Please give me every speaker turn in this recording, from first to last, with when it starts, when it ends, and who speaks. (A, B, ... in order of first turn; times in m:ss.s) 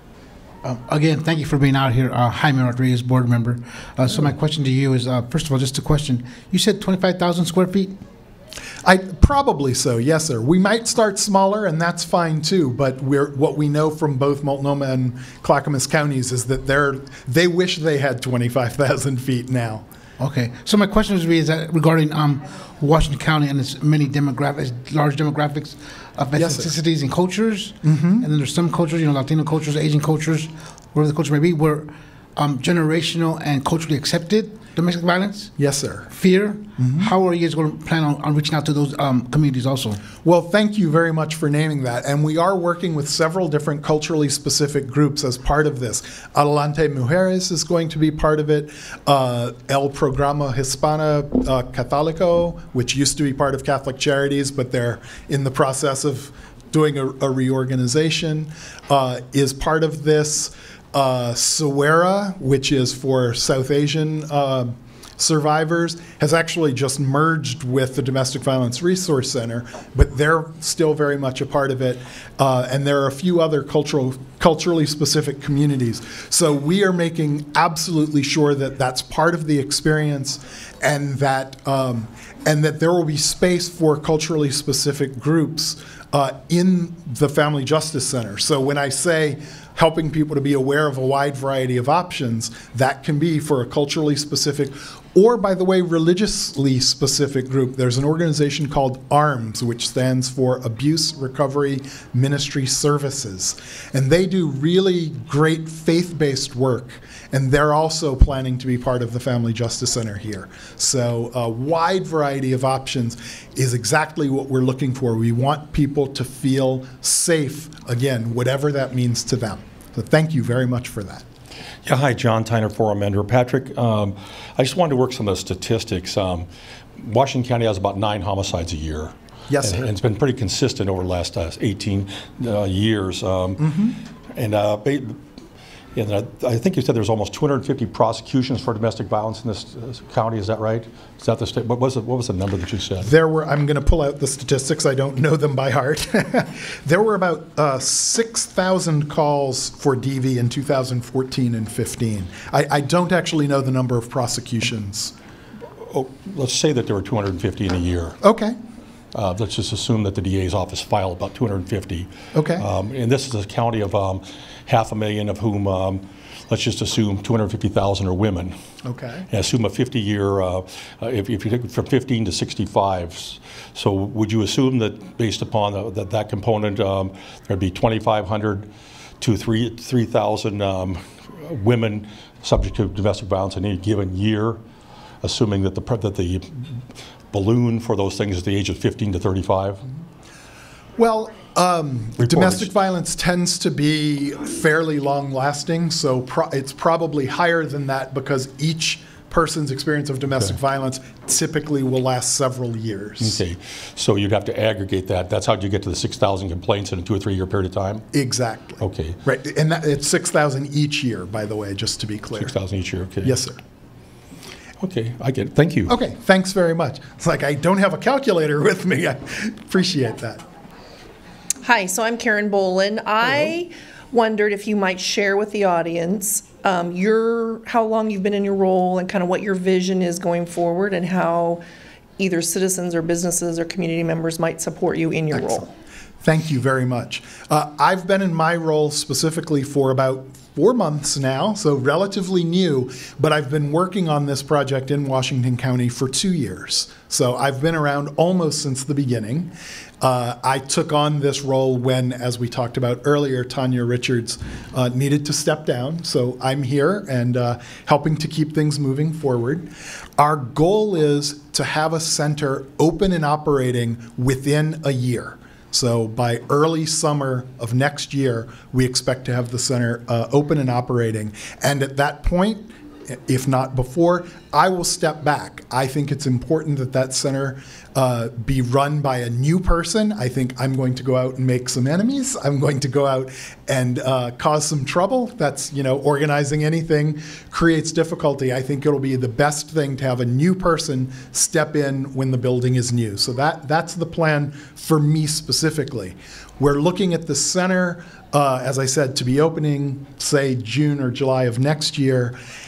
0:00.6-0:08.0 A
0:08.8-0:19.8 B
0:20.2-0:35.5 A
0:26.4-0:26.8 B
0:27.8-0:28.3 B
0:35.6-0:36.1 B
0:36.1-0:40.0 A
0:36.8-0:37.1 B
0:40.2-2:01.2 B
2:01.8-2:13.7 C
2:09.5-2:09.8 B
2:13.6-2:14.0 B
2:14.3-2:15.2 C
2:15.9-2:23.1 C
2:23.0-2:35.1 B
2:35.9-2:38.2 C
2:38.2-2:38.6 B
2:39.1-2:48.6 C
2:42.3-2:42.6 B
2:48.8-2:49.2 B
2:49.3-2:58.7 C
2:59.2-3:04.6 C
3:05.2-3:09.8 C
3:11.0-3:23.4 B
3:12.2-3:12.7 C
3:23.2-3:28.0 C
3:28.1-3:32.5 B
3:28.8-3:29.2 C
3:32.3-3:33.4 C
3:33.2-3:33.6 B
3:34.8-3:36.0 C
3:35.9-3:40.4 B
3:41.6-3:51.6 D
3:52.2-3:55.7 D
3:56.2-5:02.4 B